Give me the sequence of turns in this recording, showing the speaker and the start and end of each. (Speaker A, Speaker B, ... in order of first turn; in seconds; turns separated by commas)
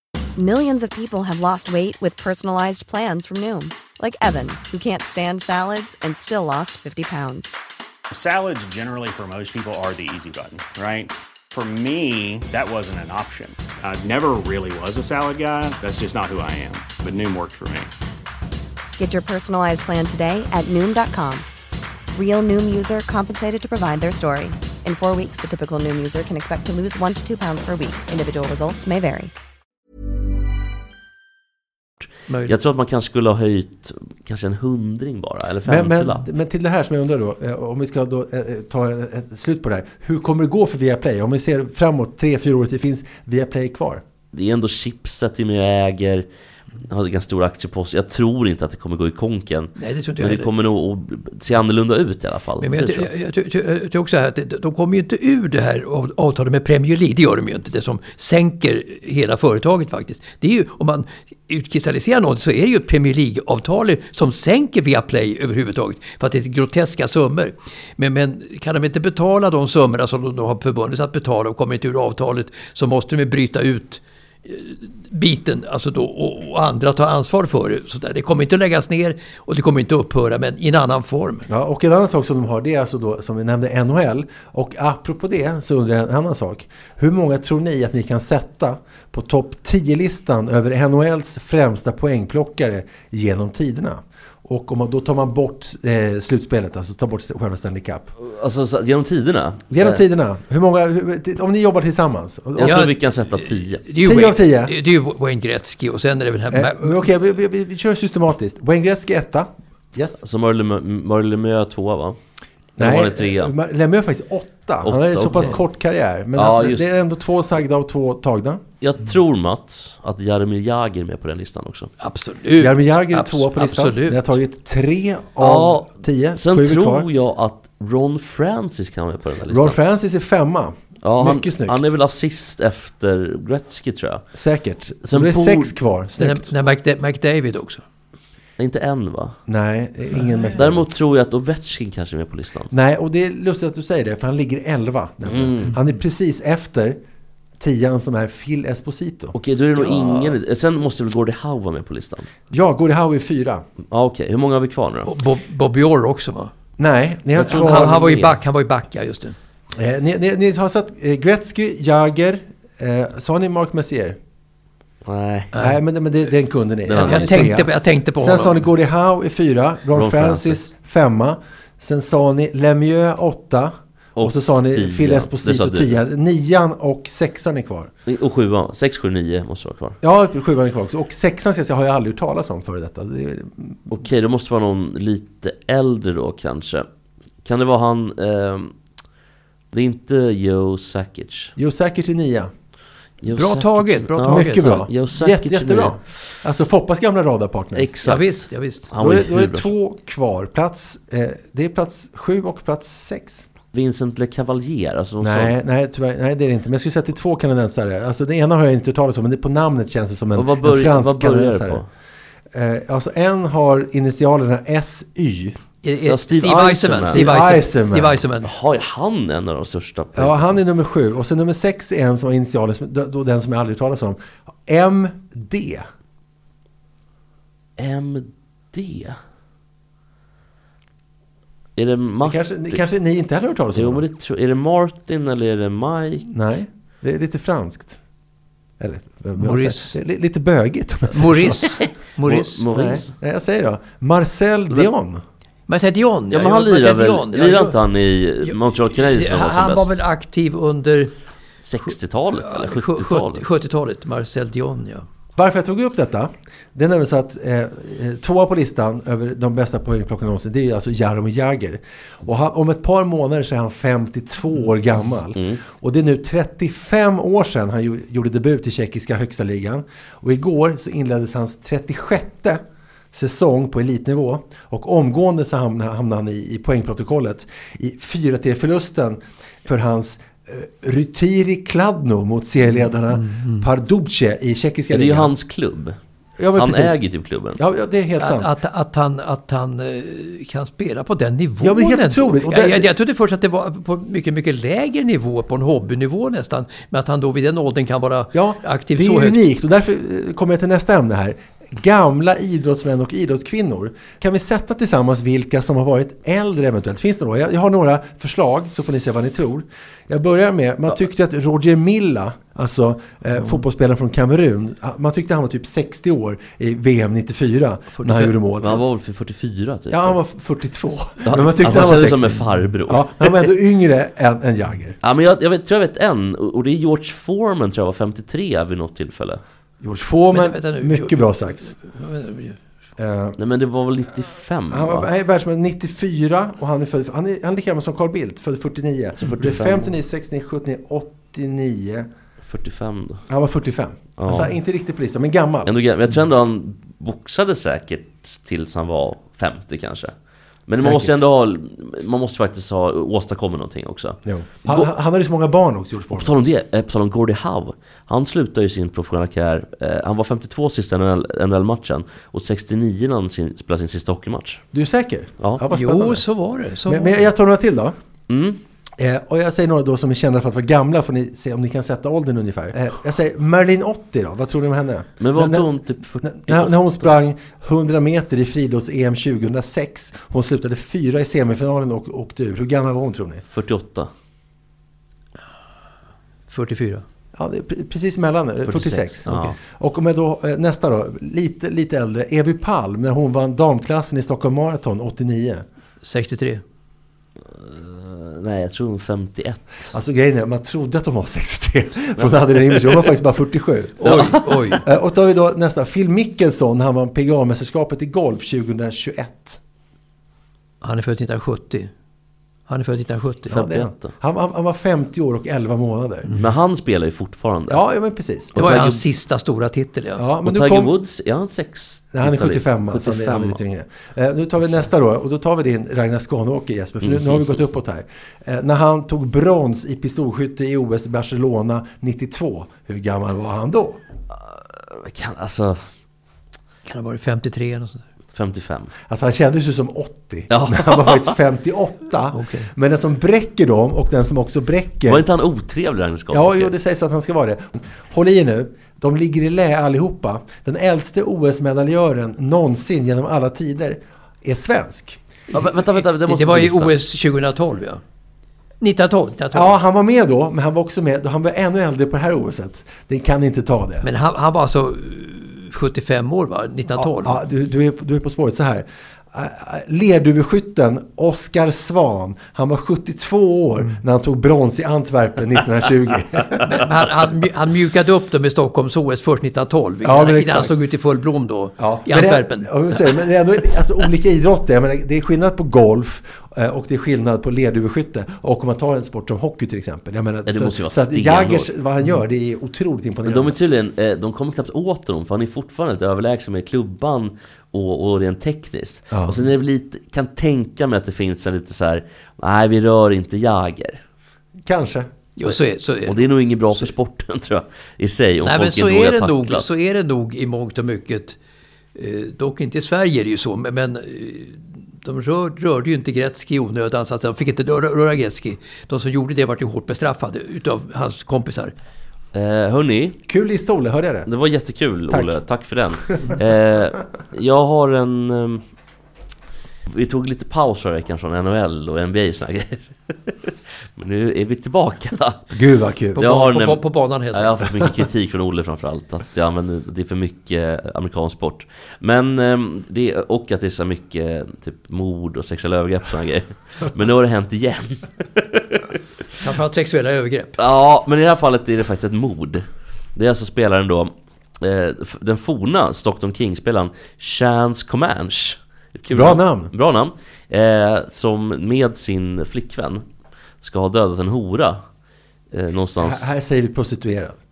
Speaker A: 0.4-7.6, Speaker B: 8.1-17.9, Speaker A: 19.0-21.4, Speaker A: 22.1-29.3, Speaker C: 32.3-32.5, Speaker D: 32.5-36.2, Speaker E: 35.6-44.0, Speaker D: 44.3-46.2, Speaker D: 46.8-53.1, Speaker C: 49.8-50.5, Speaker C: 52.6-81.5, Speaker E: 81.5-98.1, Speaker D: 98.2-100.0, Speaker E: 99.7-102.8, Speaker D: 102.6-103.8, Speaker C: 102.6-107.0, Speaker E: 104.0-104.8, Speaker E: 106.5-110.2, Speaker D: 110.2-112.2, Speaker D: 112.8-113.5, Speaker E: 112.8-118.6, Speaker D: 114.8-115.6, Speaker D: 116.3-116.9, Speaker D: 118.8-121.9, Speaker C: 122.0-124.3, Speaker E: 122.6-127.1, Speaker D: 125.4-129.8, Speaker E: 129.4-131.9, Speaker D: 131.0-134.2, Speaker E: 134.3-136.5, Speaker D: 135.0-135.8, Speaker C: 136.2-137.8, Speaker D: 138.6-139.3, Speaker E: 139.5-140.8, Speaker D: 140.5-142.7, Speaker E: 142.7-147.0, Speaker D: 145.2-145.8, Speaker E: 147.6-150.2, Speaker D: 149.3-152.3, Speaker E: 152.5-153.7, Speaker D: 153.9-155.1, Speaker C: 155.0-156.5, Speaker E: 156.8-158.0, Speaker D: 157.4-158.4, Speaker C: 157.4-159.3, Speaker E: 159.8-164.2, Speaker D: 165.0-165.5, Speaker E: 165.6-177.9, Speaker D: 166.9-167.6, Speaker C: 166.9-168.6, Speaker D: 169.9-170.6, Speaker D: 174.2-176.0, Speaker D: 178.1-180.0, Speaker E: 180.0-183.8, Speaker D: 183.9-186.8, Speaker D: 187.4-188.7, Speaker D: 189.7-191.5, Speaker E: 191.6-192.5, Speaker D: 193.2-196.1, Speaker C: 193.2-194.8, Speaker E: 194.3-197.9, Speaker D: 197.7-199.7, Speaker C: 198.0-198.9, Speaker E: 199.0-203.4, Speaker D: 203.7-205.5, Speaker E: 205.2-211.8, Speaker D: 210.3-211.9, Speaker E: 212.5-215.6, Speaker C: 215.8-218.5, Speaker D: 216.1-217.2, Speaker E: 217.0-218.2, Speaker D: 218.4-220.6, Speaker E: 220.2-225.8, Speaker D: 227.8-229.2, Speaker D: 231.8-232.8, Speaker E: 232.2-234.0, Speaker D: 233.7-236.3, Speaker E: 236.3-238.0, Speaker E: 238.8-241.7, Speaker C: 239.4-240.0, Speaker C: 241.1-242.6, Speaker D: 241.8-243.1, Speaker E: 242.7-245.2, Speaker C: 245.7-247.8, Speaker D: 246.3-249.9, Speaker C: 248.4-251.1, Speaker D: 251.6-253.5, Speaker C: 251.8-255.0, Speaker E: 255.3-285.3, Speaker D: 265.3-265.6, Speaker C: 283.1-283.6, Speaker D: 284.9-286.0, Speaker E: 286.4-287.0, Speaker D: 286.6-287.6, Speaker E: 287.6-288.5, Speaker C: 288.2-299.4, Speaker E: 291.6-292.9, Speaker E: 298.3-318.8, Speaker C: 317.9-318.3, Speaker D: 318.6-320.2, Speaker E: 319.9-325.0, Speaker D: 321.2-323.5, Speaker D: 325.0-329.4, Speaker E: 329.8-331.7, Speaker C: 330.3-332.6, Speaker E: 333.0-333.4, Speaker D: 333.4-335.1, Speaker E: 334.7-342.1, Speaker D: 339.2-339.9, Speaker D: 342.5-343.2, Speaker E: 343.3-345.7, Speaker D: 344.2-344.5, Speaker D: 345.6-350.1, Speaker D: 350.7-354.9, Speaker E: 350.8-351.2, Speaker E: 354.2-356.3, Speaker D: 356.1-364.6, Speaker E: 364.7-366.2, Speaker C: 365.7-367.3, Speaker E: 366.9-367.9, Speaker D: 368.3-368.6, Speaker E: 369.0-383.4, Speaker D: 375.2-377.1, Speaker D: 383.5-384.1, Speaker C: 386.5-387.0, Speaker E: 387.4-395.6, Speaker D: 388.7-389.5, Speaker C: 389.2-389.5, Speaker C: 396.0-396.6, Speaker D: 397.5-399.9, Speaker E: 399.9-404.1, Speaker D: 402.2-403.1, Speaker C: 404.0-404.8, Speaker D: 404.0-404.5, Speaker E: 404.8-409.6, Speaker C: 410.8-411.9, Speaker C: 412.7-413.6, Speaker E: 413.5-416.3, Speaker D: 413.5-414.1, Speaker D: 416.3-417.8, Speaker E: 417.7-418.6, Speaker D: 418.5-419.0, Speaker C: 418.6-420.2, Speaker E: 420.2-420.9, Speaker D: 420.4-423.6, Speaker E: 422.1-434.0, Speaker D: 427.0-427.6, Speaker D: 434.4-435.8, Speaker C: 436.9-438.0, Speaker D: 438.3-438.9, Speaker E: 439.1-445.2, Speaker D: 440.5-441.4, Speaker C: 442.3-442.7, Speaker D: 445.1-446.7, Speaker E: 446.3-455.2, Speaker C: 455.5-458.0, Speaker D: 455.5-457.0, Speaker C: 458.8-459.7, Speaker E: 459.5-464.1, Speaker C: 464.0-467.4, Speaker E: 467.0-476.8, Speaker C: 476.6-483.1, Speaker E: 480.0-480.7, Speaker E: 481.8-493.6, Speaker D: 490.4-491.7, Speaker D: 493.2-504.0, Speaker E: 499.1-499.4, Speaker E: 504.6-505.1, Speaker C: 505.4-506.9, Speaker D: 506.1-509.7, Speaker C: 508.4-511.4, Speaker C: 511.9-521.7, Speaker D: 522.3-523.2, Speaker E: 523.3-524.3, Speaker D: 524.3-528.6, Speaker E: 525.1-525.3, Speaker D: 529.9-535.4, Speaker E: 535.5-536.2, Speaker C: 536.1-537.6, Speaker D: 536.2-548.9, Speaker C: 549.4-550.6, Speaker D: 550.6-563.0, Speaker E: 559.1-559.7, Speaker D: 563.6-564.8, Speaker D: 565.5-566.3, Speaker E: 566.0-567.4